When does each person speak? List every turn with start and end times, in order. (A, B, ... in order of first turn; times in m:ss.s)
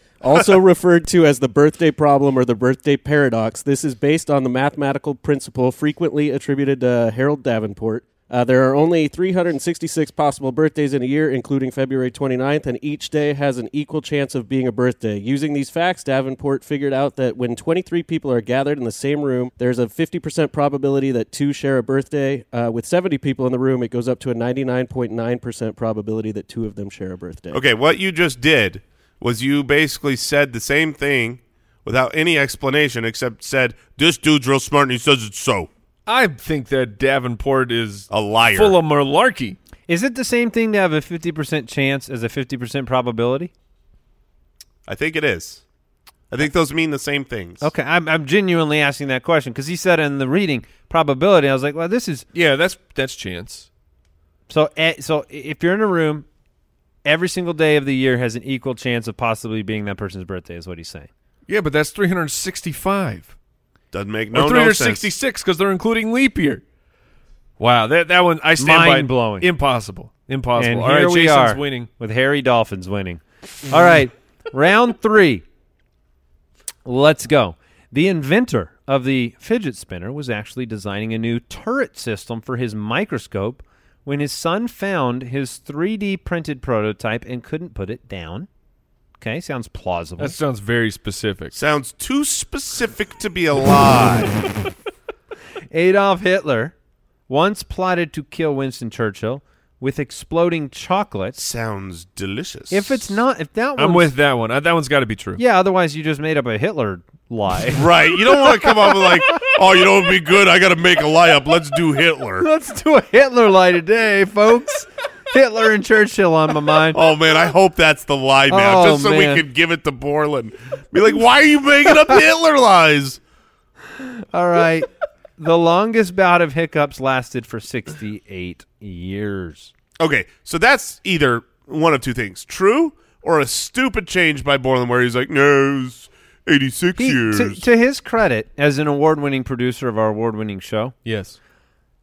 0:00.2-0:27.6 A
0:27.5-0:35.7 B
0:36.1-0:39.6 C
0:38.1-0:38.8 B
0:39.9-0:43.5 D
0:44.9-0:45.6 B
0:46.3-0:47.7 B
0:47.6-0:52.2 D
0:52.3-0:53.7 C
0:54.5-0:56.2 D
0:57.0-1:01.1 D
1:01.5-1:03.3 C
1:03.9-1:05.1 B
1:04.3-1:06.6 C
1:07.6-1:11.9 C
1:08.6-1:09.5 D
1:10.6-1:15.4 D
1:16.8-1:28.5 D
1:29.2-1:30.4 D
1:30.2-1:31.6 C
1:31.5-1:34.3 B
1:35.7-1:36.7 D
1:37.3-1:41.4 D
1:41.4-1:43.2 B
1:42.7-1:44.1 D
1:43.8-1:45.4 C
1:45.4-1:49.5 D
1:47.7-1:52.5 B
1:52.4-1:57.0 D
1:56.9-2:03.2 B
1:58.5-1:59.4 D
2:04.0-2:09.7 D
2:10.0-2:17.6 B
2:17.0-2:20.9 D
2:21.0-2:21.4 C